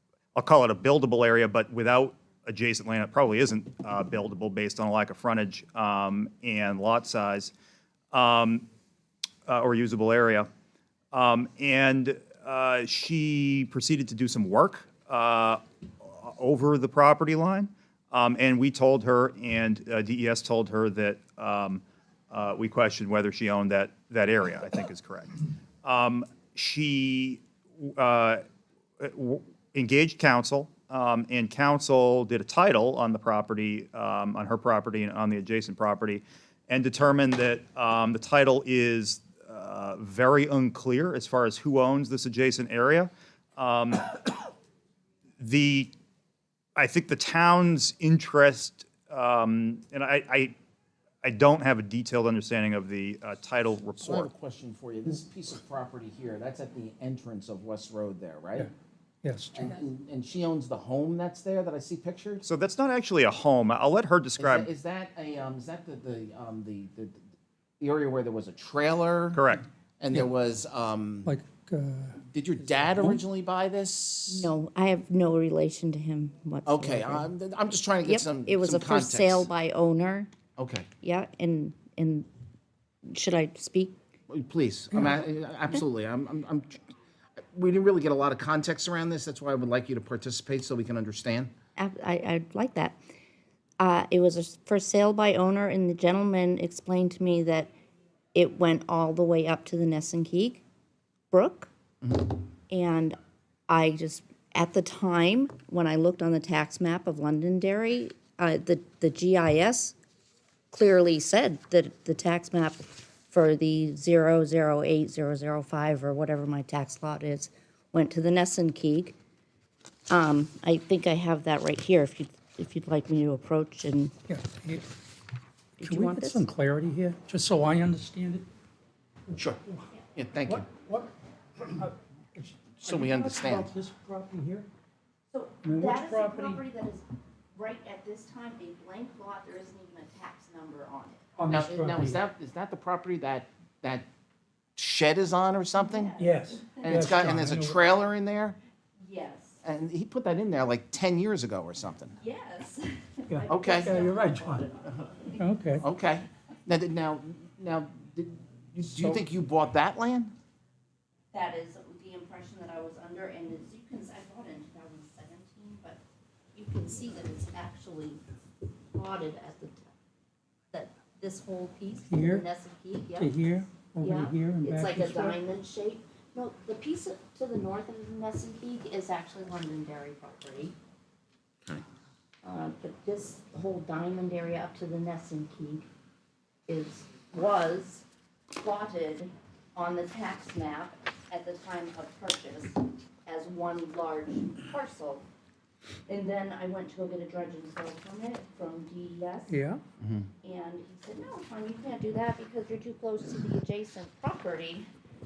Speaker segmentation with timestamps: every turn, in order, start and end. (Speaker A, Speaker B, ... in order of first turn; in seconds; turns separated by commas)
Speaker A: 0.3-7.5, Speaker A: 8.1-8.7, Speaker A: 9.5-10.5, Speaker A: 11.1-28.4, Speaker A: 29.0-44.3, Speaker A: 45.4-45.9, Speaker A: 46.8-50.5, Speaker A: 51.2-54.3, Speaker B: 54.0-58.7, Speaker C: 59.2-59.7, Speaker B: 59.5-62.4, Speaker A: 62.4-64.7, Speaker B: 64.4-67.2, Speaker B: 67.8-69.4, Speaker A: 69.3-69.6, Speaker B: 70.0-71.3, Speaker C: 71.2-73.2, Speaker B: 72.2-74.5, Speaker D: 74.3-77.3, Speaker B: 76.7-79.5, Speaker D: 78.0-80.3, Speaker B: 80.6-80.9, Speaker D: 81.0-82.3, Speaker D: 83.0-83.9, Speaker B: 84.3-86.8, Speaker B: 87.5-91.5, Speaker D: 91.8-93.0, Speaker D: 93.8-97.7, Speaker D: 98.3-100.6, Speaker D: 101.3-101.7, Speaker B: 102.0-102.4, Speaker D: 102.7-103.2, Speaker D: 103.7-110.0, Speaker D: 110.7-119.2, Speaker D: 120.1-124.1, Speaker C: 124.3-124.9, Speaker D: 125.8-126.5, Speaker C: 125.8-128.5, Speaker C: 129.3-129.9, Speaker B: 129.3-129.6, Speaker B: 130.2-130.7, Speaker C: 130.5-134.7, Speaker B: 132.8-133.7, Speaker D: 135.3-141.3, Speaker C: 135.6-136.6, Speaker C: 141.4-142.2, Speaker B: 141.5-144.1, Speaker B: 144.8-146.2, Speaker D: 145.8-147.1, Speaker C: 146.2-147.8, Speaker B: 146.8-148.6, Speaker D: 149.0-149.6, Speaker B: 149.6-152.2, Speaker D: 152.2-155.4, Speaker C: 153.3-154.7, Speaker B: 153.5-154.0, Speaker C: 155.4-155.8, Speaker B: 155.8-160.3, Speaker C: 158.8-159.2, Speaker D: 161.3-166.0, Speaker D: 166.5-168.2, Speaker D: 168.9-169.9, Speaker D: 170.7-173.3, Speaker C: 172.1-172.5, Speaker C: 173.2-175.4, Speaker D: 174.0-180.8, Speaker D: 182.4-185.9, Speaker D: 186.7-195.2, Speaker D: 196.1-199.6, Speaker C: 199.5-199.8, Speaker B: 200.0-200.3, Speaker D: 200.4-204.9